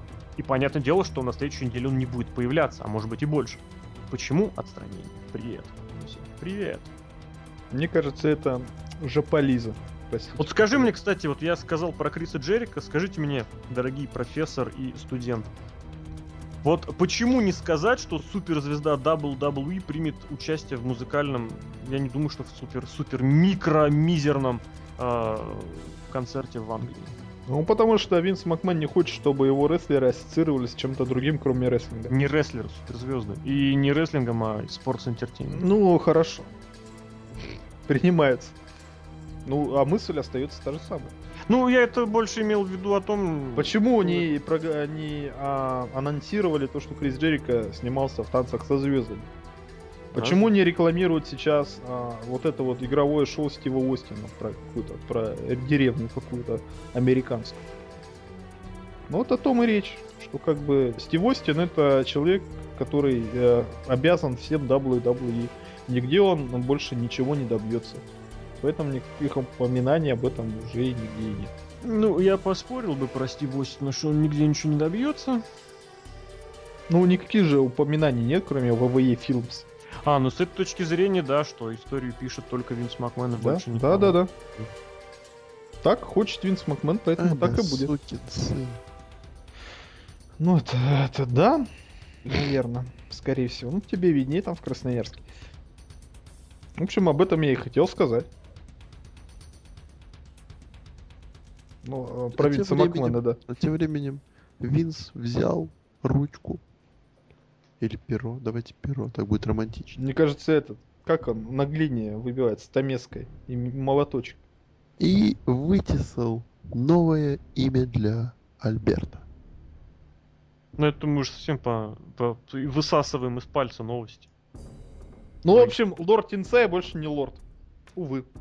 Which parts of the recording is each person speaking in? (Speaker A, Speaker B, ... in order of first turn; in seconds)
Speaker A: 0.4-6.9, 10.4-15.5, 16.6-27.1, 32.1-35.6, 41.5-44.3, 50.2-50.5, 71.8-75.5, 80.0-84.2, 120.8-124.3, 125.5-125.8
Speaker B: 7.7-10.9, 27.5-32.1, 35.5-36.5, 37.9-38.6, 39.5-41.1, 43.6-49.3, 50.1-57.6, 59.1-68.0, 68.6-71.5, 76.9-79.7, 83.4-84.3, 85.8-87.9, 90.4-91.7, 92.2-95.2, 96.8-98.3, 101.8-103.4, 110.0-114.4, 125.4-127.4, 128.0-128.3
Speaker C: 87.2-88.8, 102.4-106.6, 107.8-110.0, 115.0-119.2